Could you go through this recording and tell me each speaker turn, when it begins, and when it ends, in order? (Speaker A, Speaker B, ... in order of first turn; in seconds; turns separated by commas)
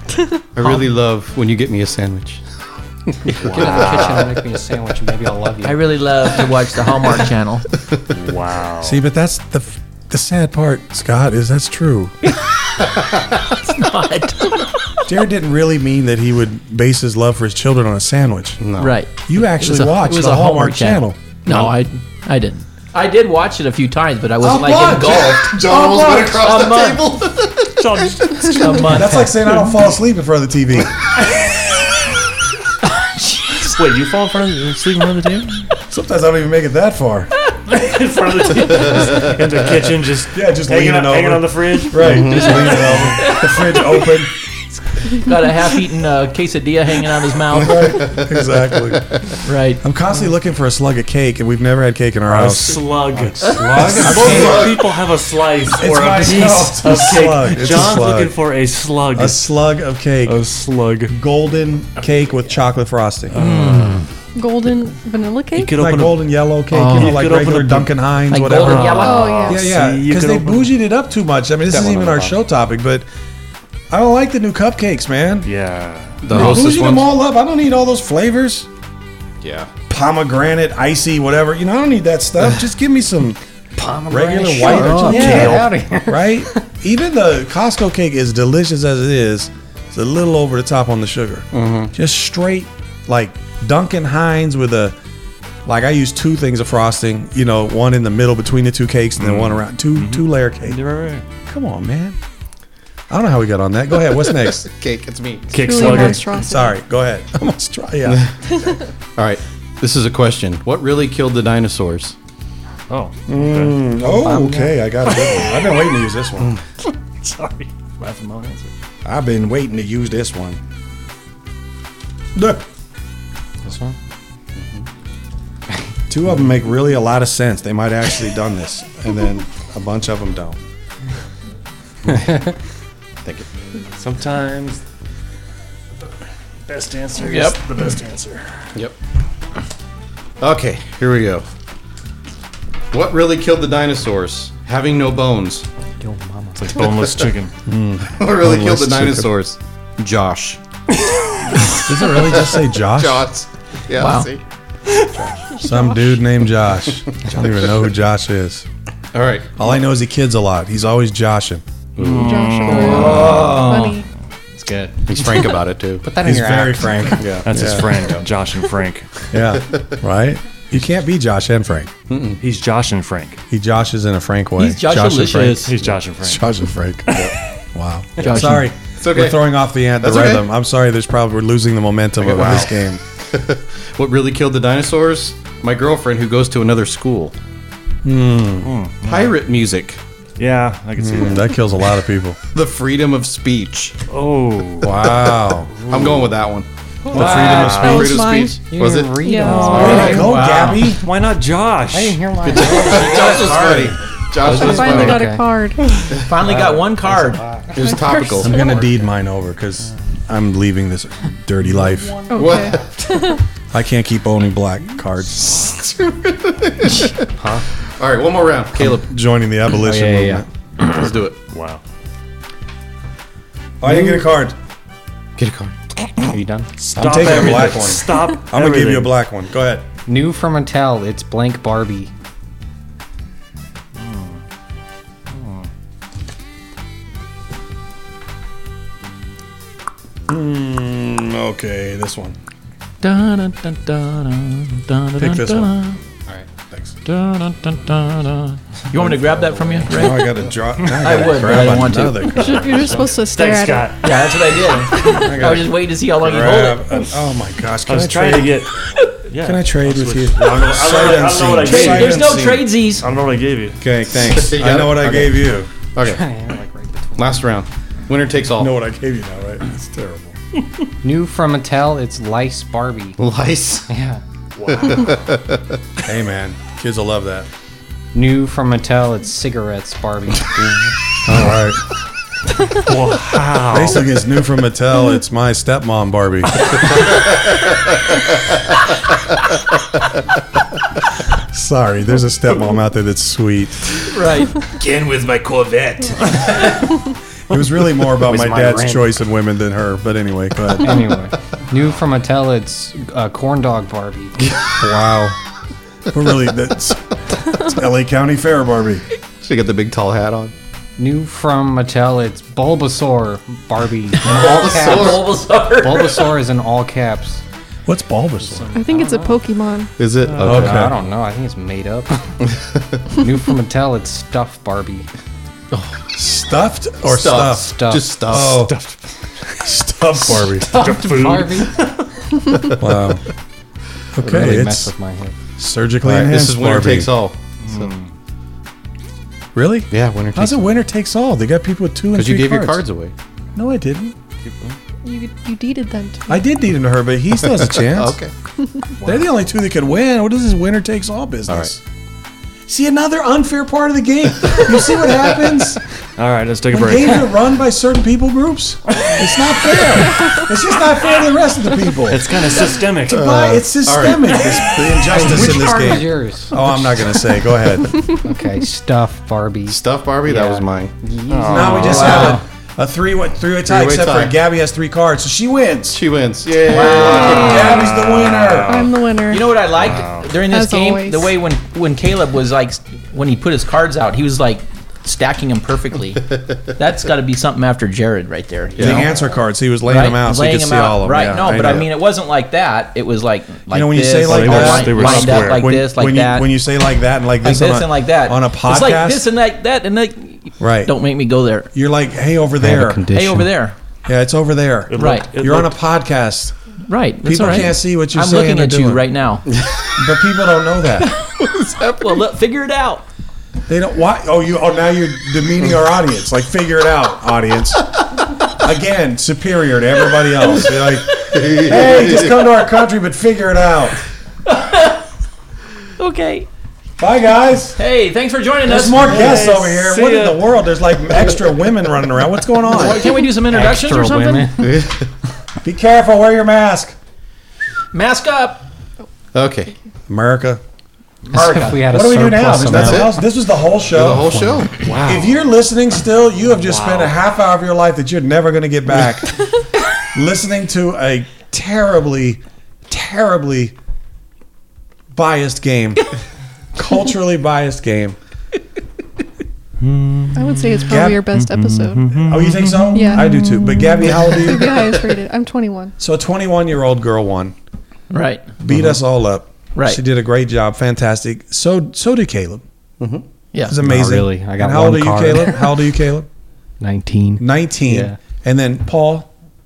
Speaker A: 0.5-2.4, Speaker B: 0.6-0.9, Speaker A: 3.1-4.3, Speaker C: 3.4-4.3, Speaker D: 3.4-6.1, Speaker B: 5.6-7.7, Speaker C: 8.1-9.0, Speaker E: 8.8-12.1, Speaker B: 12.3-15.0, Speaker E: 15.1-18.6, Speaker A: 18.6-18.9, Speaker B: 18.8-25.6, Speaker E: 19.2-21.7, Speaker E: 24.4-26.6, Speaker A: 25.4-28.4, Speaker B: 26.3-27.1, Speaker C: 27.7-28.9, Speaker B: 28.5-29.6, Speaker E: 28.8-30.9, Speaker B: 32.9-33.8, Speaker C: 33.6-35.7, Speaker E: 35.9-37.3, Speaker C: 37.7-43.4, Speaker E: 40.3-44.3, Speaker A: 42.0-42.6, Speaker B: 43.2-43.5, Speaker B: 45.0-48.0, Speaker E: 47.5-52.8, Speaker A: 47.8-48.4, Speaker B: 49.4-49.8, Speaker C: 52.2-59.5, Speaker D: 53.4-54.7, Speaker E: 53.8-54.8, Speaker A: 53.9-54.9, Speaker E: 55.8-58.3, Speaker A: 57.6-57.9, Speaker E: 59.1-60.4, Speaker C: 60.2-61.1, Speaker E: 61.1-63.4, Speaker C: 63.3-64.1, Speaker B: 63.4-63.8, Speaker F: 64.3-65.7, Speaker C: 65.5-66.3, Speaker E: 65.7-73.0, Speaker B: 66.7-67.2, Speaker C: 66.8-70.7, Speaker B: 68.3-69.5, Speaker F: 69.0-69.7, Speaker A: 71.7-72.3, Speaker E: 73.9-75.5, Speaker C: 75.4-76.5, Speaker A: 76.2-77.1, Speaker E: 76.3-78.7, Speaker A: 79.4-79.7, Speaker E: 79.9-83.4, Speaker D: 83.8-86.6, Speaker E: 84.1-95.0, Speaker C: 84.6-85.8, Speaker A: 91.5-91.9, Speaker E: 95.7-100.8, Speaker C: 99.2-101.2, Speaker E: 101.5-102.2, Speaker E: 103.1-104.7, Speaker A: 104.7-106.1, Speaker C: 105.5-106.3, Speaker F: 105.5-106.7, Speaker E: 106.4-108.3, Speaker A: 109.2-112.2, Speaker C: 112.9-113.8, Speaker E: 113.3-116.5, Speaker D: 114.0-114.8, Speaker C: 115.0-116.0, Speaker C: 116.8-118.7, Speaker E: 119.0-120.6, Speaker E: 122.3-122.6, Speaker D: 123.6-124.0, Speaker A: 124.6-124.8, Speaker E: 126.1-130.6, Speaker C: 133.9-134.8, Speaker C: 136.7-138.7, Speaker B: 137.2-137.6, Speaker A: 140.4-141.4, Speaker A: 142.9-145.7, Speaker D: 146.0-146.7, Speaker C: 146.6-147.5, Speaker A: 146.8-147.3, Speaker E: 147.6-149.3, Speaker A: 148.1-150.6, Speaker A: 151.7-154.4, Speaker E: 151.8-153.3, Speaker B: 153.9-154.3, Speaker A: 154.9-155.5, Speaker E: 155.6-158.7, Speaker A: 159.1-159.8, Speaker E: 159.6-161.6, Speaker A: 162.0-164.0, Speaker C: 162.0-163.4, Speaker F: 162.1-164.1, Speaker E: 162.9-163.8, Speaker D: 164.6-167.7, Speaker A: 165.1-166.1, Speaker E: 166.2-167.9, Speaker A: 167.2-167.7, Speaker C: 167.4-169.1, Speaker E: 169.3-171.9, Speaker A: 169.5-169.9, Speaker A: 172.1-172.4, Speaker C: 172.4-173.4, Speaker E: 173.5-183.0, Speaker B: 174.6-175.7, Speaker C: 175.6-177.4, Speaker B: 178.2-178.7, Speaker A: 179.0-179.4, Speaker A: 180.0-180.5, Speaker A: 182.2-187.3, Speaker E: 188.0-188.7, Speaker C: 188.6-189.4, Speaker A: 189.0-190.0, Speaker C: 190.4-191.7, Speaker E: 191.0-192.4, Speaker A: 192.5-193.9, Speaker C: 194.1-195.1, Speaker E: 194.8-195.7, Speaker A: 195.8-200.2, Speaker C: 195.8-196.3, Speaker D: 197.1-200.4, Speaker E: 197.1-198.0, Speaker C: 197.1-198.1, Speaker F: 197.6-198.6, Speaker F: 199.2-200.1, Speaker E: 199.7-201.0, Speaker B: 200.1-201.0, Speaker C: 201.0-202.2, Speaker D: 201.9-203.3, Speaker A: 202.4-205.3, Speaker B: 202.9-204.0, Speaker C: 204.4-205.2, Speaker F: 204.4-206.1, Speaker D: 204.5-205.6, Speaker B: 206.2-207.4, Speaker D: 206.3-209.1, Speaker A: 207.7-208.6, Speaker F: 207.8-208.7, Speaker E: 208.4-212.2, Speaker D: 212.3-212.5, Speaker F: 212.3-213.4, Speaker A: 212.3-213.2, Speaker E: 213.7-215.7, Speaker A: 215.5-217.2, Speaker D: 217.3-217.6, Speaker A: 218.0-219.1, Speaker E: 218.7-220.5, Speaker D: 219.7-220.4, Speaker A: 220.8-221.4, Speaker C: 221.5-221.8, Speaker E: 223.8-224.6, Speaker A: 223.8-224.2, Speaker A: 225.4-226.3, Speaker D: 226.2-226.7, Speaker C: 226.8-229.1, Speaker E: 226.9-229.8, Speaker D: 230.1-232.1, Speaker C: 233.9-234.4, Speaker C: 235.3-235.7, Speaker E: 240.3-242.4, Speaker B: 243.0-246.0, Speaker E: 245.2-245.7, Speaker E: 246.5-246.9, Speaker B: 247.0-252.7, Speaker E: 249.8-252.9, Speaker F: 252.2-253.9, Speaker C: 252.6-255.1, Speaker B: 254.0-256.9, Speaker E: 255.1-258.6, Speaker C: 257.9-263.8, Speaker E: 259.4-262.4, Speaker B: 261.6-263.1, Speaker A: 261.9-262.6, Speaker E: 263.8-265.7, Speaker A: 264.1-266.3, Speaker D: 266.0-267.4, Speaker A: 267.1-268.7, Speaker E: 268.6-270.4, Speaker D: 271.0-273.2, Speaker A: 273.2-273.9, Speaker D: 273.9-274.2, Speaker C: 274.5-275.3, Speaker A: 274.6-275.7, Speaker E: 276.0-277.5, Speaker D: 278.1-280.9, Speaker E: 281.2-281.8, Speaker C: 282.8-284.1, Speaker E: 283.7-286.8, Speaker E: 291.3-294.0, Speaker B: 294.1-294.7, Speaker C: 294.7-296.7, Speaker E: 297.5-301.1, Speaker D: 298.2-299.1, Speaker D: 300.8-305.3, Speaker E: 304.6-305.3, Speaker E: 306.1-309.0, Speaker A: 309.4-310.5, Speaker D: 311.0-317.4, Speaker A: 314.2-315.4, Speaker B: 314.3-316.3, Speaker E: 317.9-318.7, Speaker D: 318.4-319.4, Speaker F: 318.7-319.9, Speaker A: 320.0-320.9, Speaker C: 320.2-320.8, Speaker D: 320.4-322.3, Speaker E: 320.4-321.0, Speaker A: 322.5-323.1, Speaker D: 323.1-325.1, Speaker B: 325.7-326.0, Speaker E: 326.1-328.8, Speaker A: 327.0-328.6, Speaker D: 327.6-328.4, Speaker C: 328.5-329.1, Speaker E: 329.6-330.8, Speaker D: 330.4-331.9, Speaker C: 330.6-332.0, Speaker E: 332.8-333.2, Speaker E: 334.1-334.9, Speaker D: 334.2-335.4, Speaker E: 335.6-337.2, Speaker A: 336.0-337.9, Speaker C: 337.6-338.1, Speaker E: 339.5-342.8, Speaker A: 339.9-340.7, Speaker A: 342.1-343.1, Speaker E: 343.5-344.1, Speaker C: 344.4-344.8, Speaker F: 345.0-346.4, Speaker E: 346.3-348.1, Speaker A: 347.4-348.3, Speaker C: 349.0-349.3, Speaker E: 349.0-351.8, Speaker E: 352.7-355.8, Speaker C: 356.2-357.4, Speaker E: 356.7-362.3, Speaker C: 362.0-363.3, Speaker E: 363.1-368.0, Speaker A: 363.1-364.6, Speaker D: 365.0-366.7, Speaker D: 368.2-372.4, Speaker A: 369.7-370.9, Speaker C: 371.3-372.4, Speaker E: 371.5-376.0, Speaker B: 371.8-372.4, Speaker A: 373.6-374.3, Speaker A: 375.9-377.8, Speaker B: 376.6-377.7, Speaker E: 376.8-378.8, Speaker F: 377.1-377.9, Speaker C: 377.4-379.0, Speaker F: 378.6-379.5, Speaker B: 379.3-389.2, Speaker C: 379.8-380.3, Speaker F: 380.5-381.3, Speaker A: 388.7-389.1, Speaker E: 388.8-391.9, Speaker B: 389.9-396.5, Speaker E: 393.7-399.2, Speaker C: 394.2-395.7, Speaker B: 397.4-401.7, Speaker E: 400.6-400.9, Speaker E: 401.7-403.1, Speaker D: 402.6-403.5, Speaker B: 403.1-403.8, Speaker E: 404.1-406.6, Speaker C: 404.9-405.7, Speaker B: 405.0-405.3, Speaker B: 406.9-409.4, Speaker E: 407.2-409.0, Speaker A: 409.5-409.9, Speaker E: 410.0-411.1, Speaker A: 411.4-412.2, Speaker B: 411.9-413.0, Speaker E: 413.7-417.9, Speaker E: 418.5-424.0, Speaker A: 421.3-422.4, Speaker B: 424.4-425.0, Speaker B: 426.0-426.5, Speaker E: 427.0-427.8, Speaker B: 427.8-429.4, Speaker E: 428.6-433.1, Speaker C: 428.9-430.5, Speaker B: 432.7-434.5, Speaker D: 432.7-434.8, Speaker A: 434.6-435.1, Speaker E: 435.6-436.9, Speaker B: 437.9-438.6, Speaker A: 439.3-439.7, Speaker E: 440.1-440.6, Speaker B: 441.3-441.8, Speaker D: 441.3-443.1, Speaker E: 441.8-449.4, Speaker A: 442.7-443.2, Speaker A: 443.9-444.9, Speaker C: 446.6-447.1, Speaker E: 450.1-453.7, Speaker E: 455.1-456.1, Speaker E: 456.8-458.2, Speaker C: 459.8-463.3, Speaker F: 460.3-462.2, Speaker E: 460.9-461.2, Speaker E: 462.2-465.0, Speaker F: 462.9-465.9, Speaker E: 466.0-467.5, Speaker B: 468.1-468.6, Speaker E: 468.6-472.6, Speaker B: 469.7-470.0, Speaker A: 473.0-473.2, Speaker B: 473.5-473.8, Speaker E: 473.6-476.3, Speaker D: 473.8-475.8, Speaker D: 476.8-478.2, Speaker E: 477.4-479.3